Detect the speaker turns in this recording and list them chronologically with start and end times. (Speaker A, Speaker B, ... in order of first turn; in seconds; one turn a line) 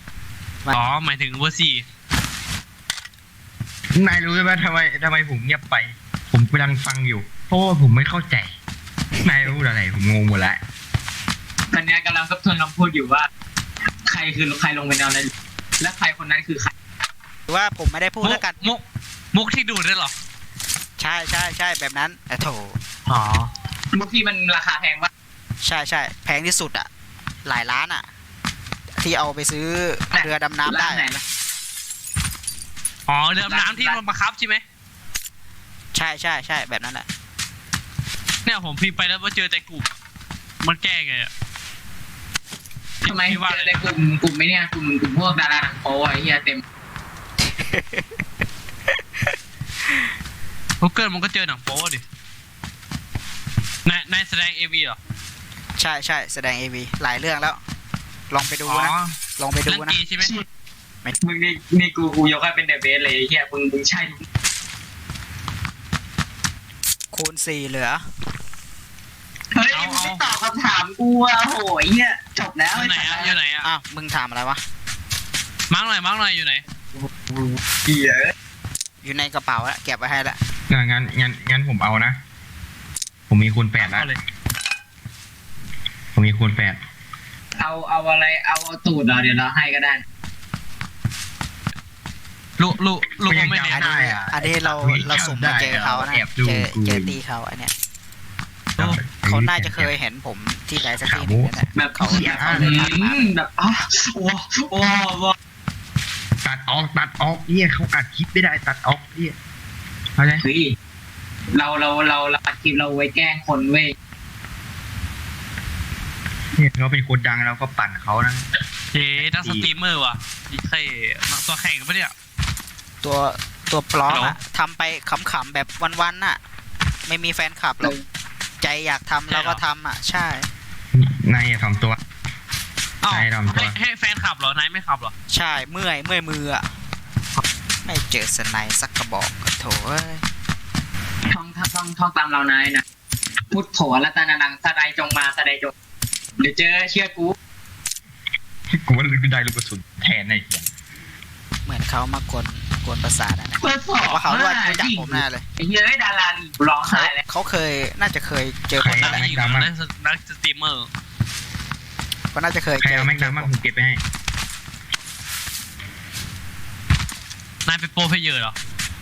Speaker A: 0.7-1.9
Speaker B: 4.0-8.5
Speaker B: 9.2-10.6
Speaker C: 11.7-13.3
Speaker C: 14.1-16.7
Speaker D: 17.5-18.7
Speaker A: 18.2-20.1
Speaker D: 21.0-22.8
Speaker A: 23.1-23.5
Speaker C: 23.9-25.1
Speaker D: 25.6-26.9
Speaker D: 27.4-28.1
Speaker D: 29.0-31.1
Speaker C: 30.1-31.2
Speaker A: 33.1-34.6
Speaker C: 33.4-34.0
Speaker D: 35.9-37.1
Speaker A: 38.5-39.9
Speaker A: 40.6-41.3
Speaker C: 43.0-46.6
Speaker A: 43.1-43.7
Speaker D: 47.4-48.2
Speaker A: 50.8-52.0
Speaker A: 53.9-55.0
Speaker D: 55.8-57.6
Speaker D: 58.3-60.0
Speaker A: 58.7-59.1
Speaker A: 59.7-60.3
Speaker C: 61.2-64.2
Speaker D: 67.1-68.1
Speaker C: 69.5-73.4
Speaker A: 69.7-70.2
Speaker A: 72.7-73.7
Speaker D: 73.6-74.6
Speaker A: 75.7-76.6
Speaker C: 77.0-78.3
Speaker D: 79.0-80.4
Speaker B: 80.7-82.2
Speaker B: 83.3-84.1
Speaker A: 83.8-84.2
Speaker B: 86.2-86.8
Speaker C: 87.6-90.0
Speaker A: 92.6-94.1
Speaker B: 93.3-97.2
Speaker D: 94.3-97.7
Speaker B: 98.8-99.9
Speaker D: 99.3-103.2
Speaker B: 100.8-102.8
Speaker C: 101.8-105.4
Speaker B: 106.4-109.4
Speaker B: 110.2-110.5
Speaker C: 110.4-110.7
Speaker C: 111.5-114.0
Speaker B: 116.5-118.5
Speaker A: 118.9-122.1
Speaker B: 119.2-119.7
Speaker D: 123.0-126.4
Speaker A: 124.1-124.4
Speaker D: 127.1-128.0
Speaker D: 128.6-130.5
Speaker A: 129.3-129.6
Speaker B: 130.9-132.0
Speaker D: 133.0-133.3
Speaker B: 133.1-133.7
Speaker A: 133.5-135.1
Speaker D: 135.3-136.7
Speaker D: 137.8-140.2
Speaker C: 141.3-142.8
Speaker C: 143.5-145.7
Speaker C: 146.4-147.3
Speaker B: 148.7-150.7
Speaker D: 151.7-155.4
Speaker C: 153.6-157.2
Speaker D: 156.9-159.3
Speaker B: 158.8-159.7
Speaker A: 158.8-160.9
Speaker D: 162.3-163.5
Speaker B: 162.8-164.0
Speaker A: 167.7-168.6